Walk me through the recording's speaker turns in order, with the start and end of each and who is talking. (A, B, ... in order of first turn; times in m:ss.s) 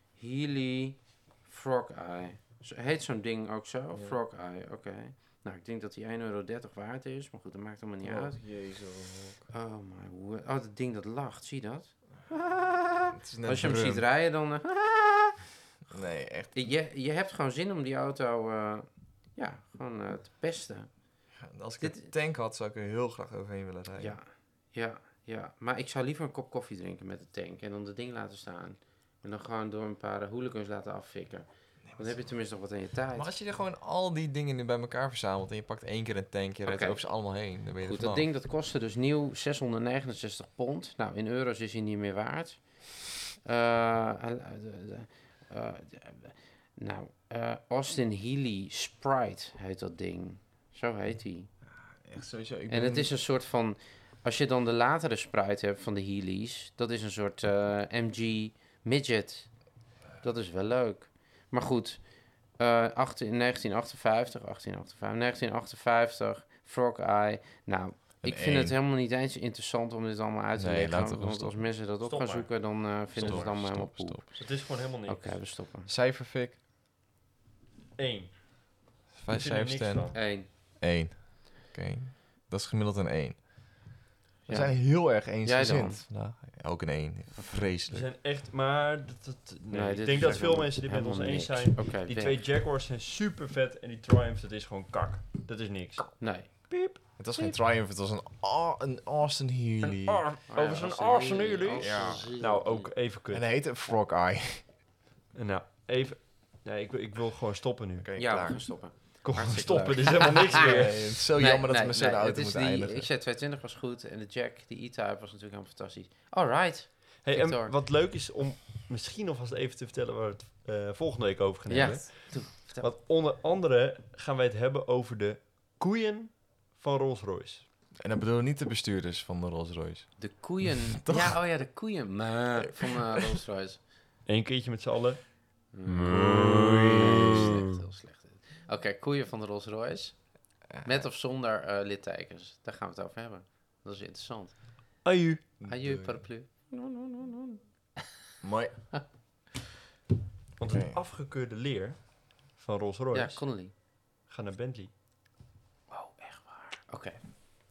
0:00.2-0:08.4 A
0:03.9-0:04.2 B
0:08.0-0:09.4 B
0:09.5-0:15.4 A
0:13.1-0:14.0 B
0:15.9-0:16.7 B
0:16.5-0:20.9 A
0:21.4-0:24.2 B
0:21.8-0:22.1 A
0:24.0-0:33.3 A
0:31.8-0:32.3 B
0:33.1-0:38.3 B
0:36.6-0:37.0 A
0:37.8-0:42.6 A
0:43.4-0:51.5 A
0:51.6-0:53.1 B
0:52.7-0:59.5 A
1:00.2-1:02.0 A
1:02.6-1:14.4 A
1:08.2-1:08.7 B
1:10.6-1:11.7 B
1:12.0-1:12.5 C
1:13.1-1:14.3 B
1:13.1-1:13.4 C
1:14.3-1:15.4 C
1:15.0-1:15.9 A
1:15.9-1:16.6 B
1:18.0-1:18.6 C
1:19.1-1:23.5 B
1:19.3-1:20.2 C
1:20.1-1:20.5 A
1:24.4-1:26.0 A
1:24.5-1:28.1 B
1:27.9-1:37.0 C
1:29.7-1:32.4 A
1:36.2-1:36.7 A
1:37.2-1:40.3 B
1:39.8-1:43.4 C
1:40.5-1:42.9 A
1:41.8-1:42.3 B
1:43.3-1:44.7 B
1:45.3-1:48.1 C
1:48.0-1:48.6 B
1:48.2-1:50.7 A
1:49.2-1:51.0 C
1:50.5-1:53.1 B
1:51.4-1:57.8 A
1:57.2-2:07.6 C
2:01.7-2:02.9 A
2:08.0-2:11.4 B
2:10.2-2:13.8 A
2:12.6-2:13.3 B
2:14.3-2:15.2 C
2:15.7-2:20.2 A
2:15.9-2:17.6 B
2:20.7-2:21.0 B
2:20.8-2:24.5 A
2:25.0-2:25.4 C
2:25.6-2:26.2 B
2:25.6-2:28.1 A
2:28.4-2:28.9 B
2:30.6-2:33.5 C
2:30.7-2:31.0 B
2:33.1-2:33.7 A
2:34.3-2:34.9 C
2:35.9-2:37.5 A